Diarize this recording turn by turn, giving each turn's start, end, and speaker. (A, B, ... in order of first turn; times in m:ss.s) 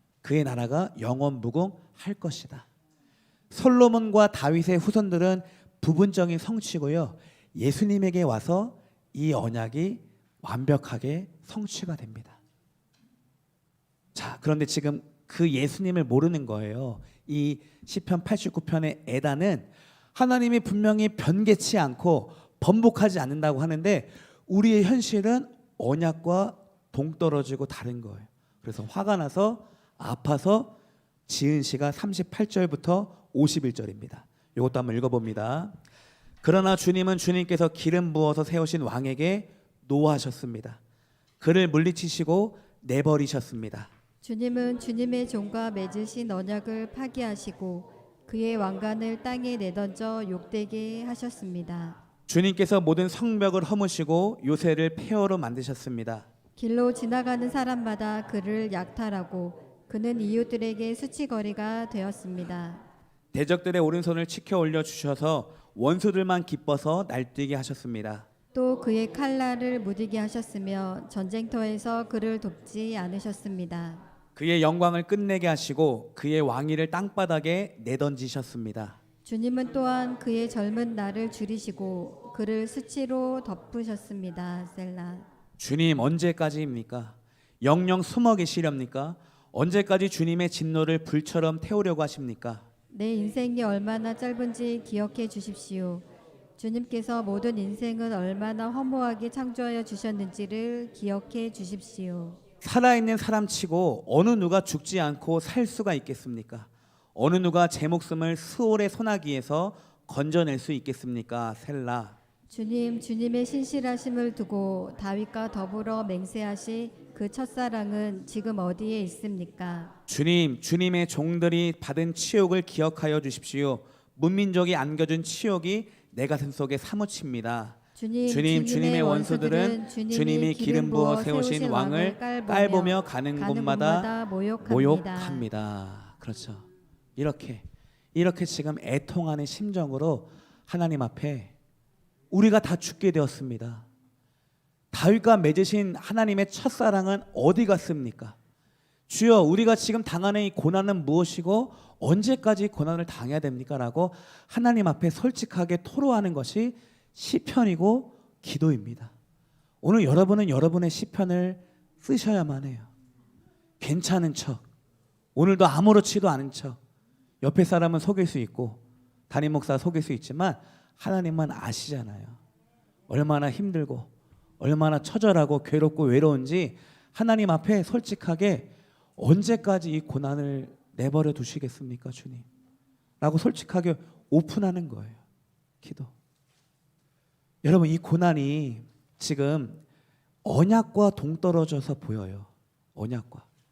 0:00.2-0:02.6 A
0:03.5-0:12.4 A
0:14.1-0:30.7 A
0:31.3-0:35.7 A
0:36.4-0:40.8 A
0:41.4-0:43.9 A
0:44.2-0:52.0 B
0:52.3-0:56.3 A
0:56.6-1:02.8 B
1:03.3-1:08.3 A
1:08.5-1:14.0 B
1:14.4-1:19.0 A
1:19.2-1:25.2 B
1:25.6-1:32.6 A
1:32.9-1:36.0 B
1:36.6-1:42.4 B
1:42.6-1:52.2 A
1:52.5-1:59.9 B
2:00.1-2:14.1 A
2:08.0-2:15.4 B
2:14.6-2:16.6 A
2:17.2-2:21.5 A
2:22.3-2:23.8 A
2:24.9-2:28.3 A
2:29.1-2:39.1 A
2:39.8-2:42.9 A
2:43.8-2:44.6 A
2:45.4-2:46.8 A
2:47.4-2:52.4 A
2:53.1-2:54.1 A
2:54.6-3:02.4 A
3:03.2-3:05.2 A
3:05.8-3:06.1 A
3:07.6-3:09.8 A
3:10.4-3:13.4 A